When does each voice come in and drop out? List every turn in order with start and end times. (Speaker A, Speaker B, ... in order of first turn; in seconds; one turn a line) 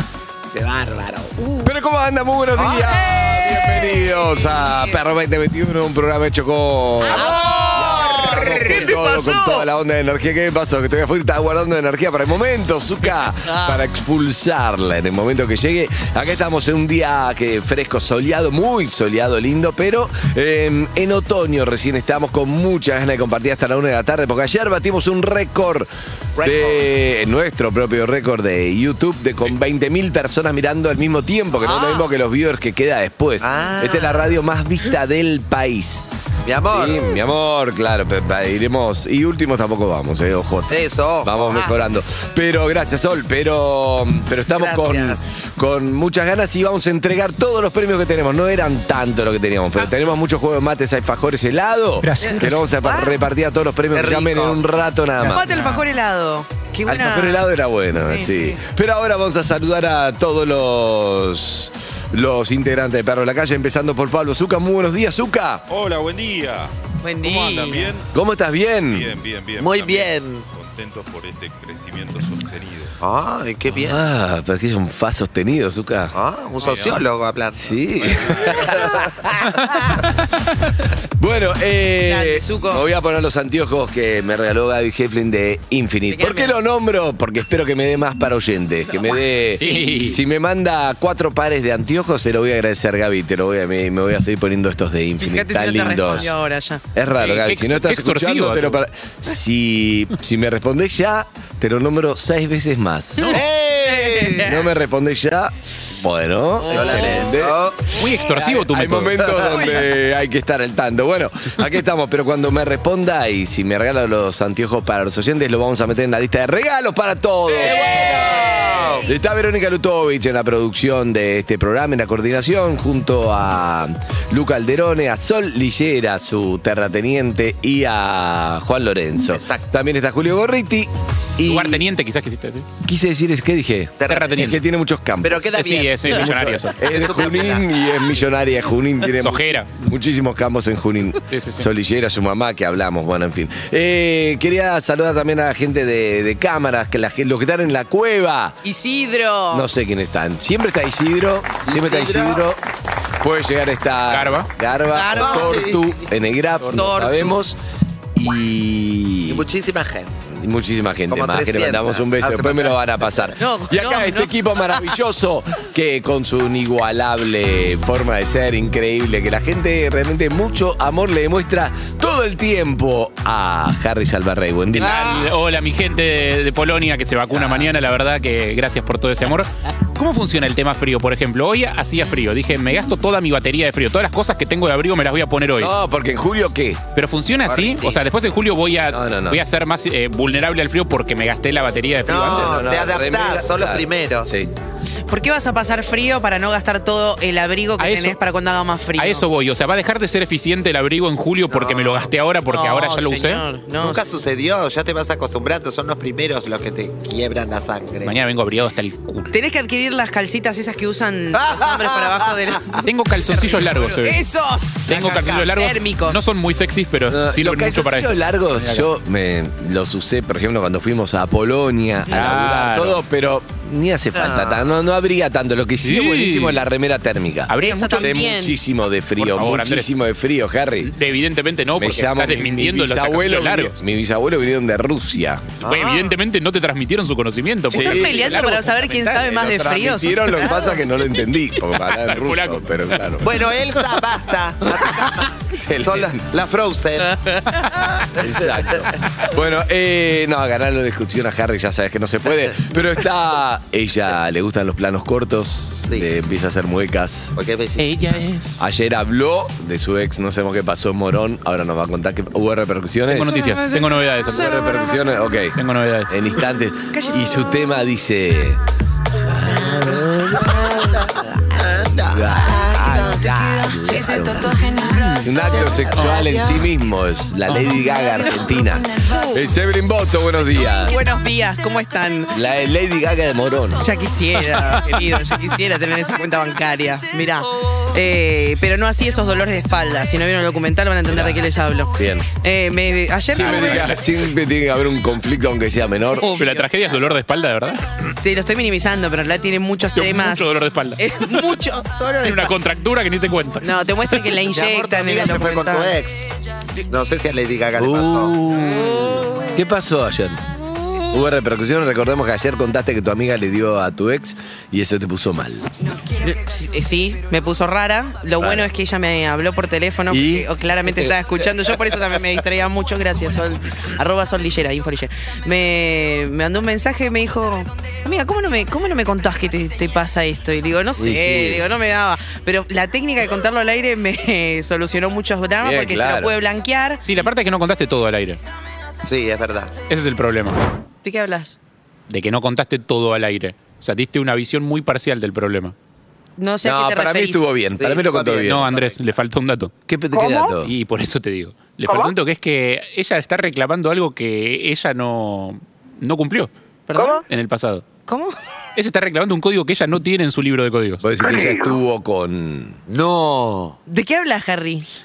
Speaker A: 0.5-1.7
Speaker B: 1.6-25.9
Speaker A: 2.5-2.9
Speaker C: 2.7-5.0
Speaker C: 7.1-9.7
Speaker A: 7.1-9.0
Speaker C: 13.0-13.8
Speaker A: 26.4-26.9
Speaker B: 26.4-55.4
Speaker C: 31.6-32.1
Speaker A: 33.4-34.4
Speaker A: 36.4-37.0
Speaker A: 40.7-41.8
Speaker A: 44.5-45.2
Speaker D: 52.0-52.6
Speaker C: 52.2-53.2
Speaker A: 53.9-54.6
Speaker D: 55.2-55.9
Speaker C: 55.3-58.6
Speaker B: 56.9-65.6
Speaker E: 65.7-68.1
Speaker C: 67.0-67.9
Speaker B: 68.1-69.1
Speaker E: 68.9-73.0
Speaker A: 69.6-70.5
Speaker A: 73.0-74.0
Speaker B: 73.7-76.2
Speaker A: 76.1-80.0
Speaker E: 76.6-77.0
Speaker B: 77.6-79.0
Speaker E: 78.0-78.5
Speaker B: 81.2-96.3
Speaker C: 82.0-82.8
Speaker C: 86.1-86.5
Speaker C: 88.9-90.1
Speaker D: 89.6-90.2
Speaker C: 95.2-96.8
Speaker B: 96.9-103.4
Speaker D: 97.2-98.8
Speaker C: 103.2-104.7
Speaker A: 103.3-104.5
Speaker B: 104.4-107.6
Speaker C: 106.6-107.4
Speaker A: 106.7-107.9
Speaker D: 107.9-109.4
Speaker B: 108.2-118.2
Speaker C: 109.4-109.9
Speaker C: 117.5-119.0
Speaker A: 117.6-119.1
Speaker B: 119.0-131.8
Speaker A: 129.2-129.6
Speaker D: 131.4-132.7
Speaker B: 132.8-148.6
Speaker A: 134.0-134.4
Speaker D: 134.1-134.6
Speaker A: 135.2-136.3
Speaker D: 135.5-137.1
Speaker A: 136.8-137.7
Speaker D: 139.2-139.7
Speaker D: 141.3-141.7
Speaker C: 148.6-149.7
Speaker B: 149.5-152.6
Speaker A: 151.7-152.4
Speaker B: 153.2-157.6
Speaker D: 154.1-154.5
Speaker C: 154.9-155.6
Speaker A: 155.2-156.0
Speaker C: 156.7-157.4
Speaker B: 158.2-159.5
Speaker A: 159.3-160.1
Speaker B: 160.3-175.1
Speaker A: 161.1-162.8
Speaker C: 163.4-164.3
Speaker D: 174.7-185.7
Speaker C: 174.8-175.2
Speaker A: 174.8-175.3
Speaker B: 177.3-177.7
Speaker B: 185.6-186.8
Speaker D: 186.9-192.7
Speaker B: 187.5-188.0
Speaker B: 188.9-189.4
Speaker A: 192.1-194.3
Speaker B: 192.3-194.5
Speaker C: 195.1-199.3
Speaker D: 197.8-198.2
Speaker D: 199.0-203.4
Speaker A: 201.5-202.1
Speaker C: 202.5-204.0
Speaker A: 203.8-208.2
Speaker D: 208.0-209.3
Speaker C: 209.3-212.9
Speaker A: 211.3-212.8
Speaker D: 212.8-214.3
Speaker C: 213.9-214.8
Speaker A: 214.9-215.5
Speaker D: 214.9-218.9
Speaker C: 215.5-216.2
Speaker B: 217.1-230.9
Speaker D: 222.1-223.0
Speaker A: 224.1-224.8
Speaker D: 225.8-226.6
Speaker D: 227.5-228.2
Speaker C: 227.6-228.6
Speaker D: 229.2-229.9
Speaker D: 230.8-233.8
Speaker B: 231.8-235.5
Speaker D: 235.6-239.3
Speaker A: 235.6-236.2
Speaker B: 237.7-238.4
Speaker C: 237.7-240.8
Speaker B: 239.2-243.4
Speaker D: 241.8-243.3
Speaker A: 243.2-247.2
Speaker B: 245.3-246.2
Speaker C: 247.0-247.7
Speaker A: 248.2-248.9
Speaker B: 248.2-257.4
Speaker A: 257.4-258.1
Speaker D: 257.8-258.6
Speaker B: 258.6-263.4
Speaker D: 263.1-264.5
Speaker C: 263.1-265.1
Speaker B: 264.3-268.6
Speaker D: 265.6-266.1
Speaker C: 266.9-267.5
Speaker B: 269.2-271.4
Speaker A: 269.4-273.5
Speaker B: 272.1-274.5
Speaker C: 273.9-275.4
Speaker D: 274.8-275.2
Speaker B: 275.2-281.0
Speaker A: 275.2-276.7
Speaker C: 279.0-279.4
Speaker C: 280.8-282.3
Speaker B: 282.3-283.9
Speaker C: 283.8-294.0
Speaker B: 292.0-292.3
Speaker B: 293.3-296.3
Speaker D: 293.4-294.0
Speaker C: 296.2-296.7
Speaker D: 296.4-297.9
Speaker C: 298.1-302.6
Speaker D: 299.9-301.4
Speaker D: 302.2-303.6
Speaker C: 303.6-305.9
Speaker A: 304.5-306.3
Speaker A: 306.9-308.4
Speaker B: 307.8-310.4
Speaker C: 308.6-309.6
Speaker B: 311.1-315.7
Speaker C: 315.9-337.0
Speaker B: 318.4-318.7
Speaker B: 320.1-321.1
Speaker B: 331.0-331.6
Speaker B: 335.6-336.4
Speaker D: 337.0-338.4
Speaker A: 339.0-339.7
Speaker D: 339.9-340.6
Speaker C: 341.0-341.6
Speaker D: 342.1-345.7
Speaker C: 346.4-347.4
Speaker B: 346.6-348.7
Speaker A: 347.8-349.0
Speaker D: 348.5-349.7
Speaker B: 349.9-350.7
Speaker D: 350.6-356.5
Speaker C: 356.9-357.2
Speaker D: 357.3-357.9
Speaker C: 358.1-358.4
Speaker D: 358.8-361.0
Speaker B: 361.0-362.8
Speaker A: 362.9-363.8
Speaker C: 363.9-364.9